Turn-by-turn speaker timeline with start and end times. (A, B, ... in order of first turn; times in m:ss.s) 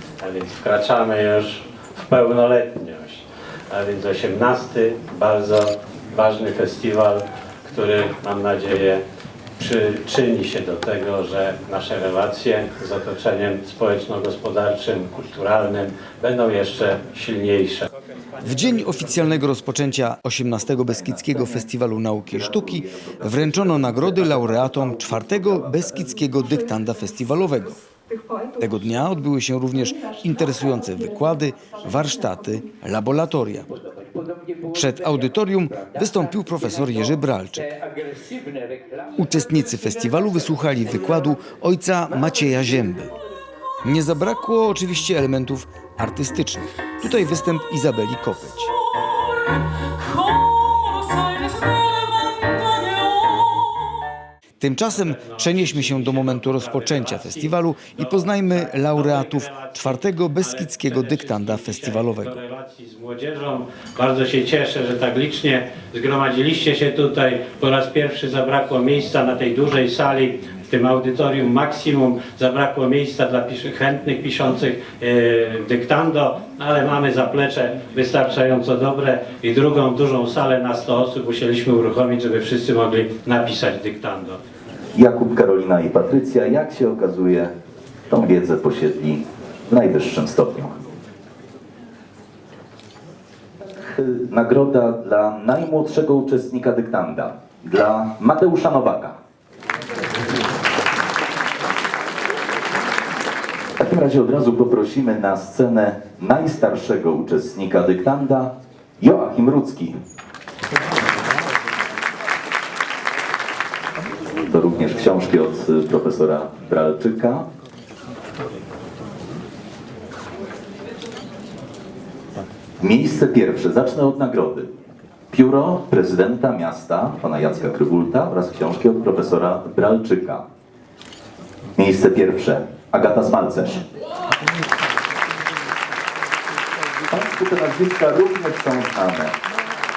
0:00.2-0:09.0 A
0:09.6-0:17.9 A
0:18.4-0:27.8 B
0:20.9-0:21.7 C
0:22.3-0:24.0 C
0:28.6-0:33.7 B
0:34.7-0:37.7 B
0:39.2-0:43.1 B
0:43.8-0:48.7 B
0:50.9-0:51.2 B
0:54.6-1:02.4 B
0:54.9-1:24.4 A
1:25.0-1:27.5 C
1:28.1-1:30.8 C
1:33.8-1:39.2 C
1:43.8-1:50.0 C
1:54.3-1:57.5 C
2:02.8-2:04.7 C
2:05.3-2:10.5 C
2:11.8-2:13.9 C
2:17.1-2:19.4 C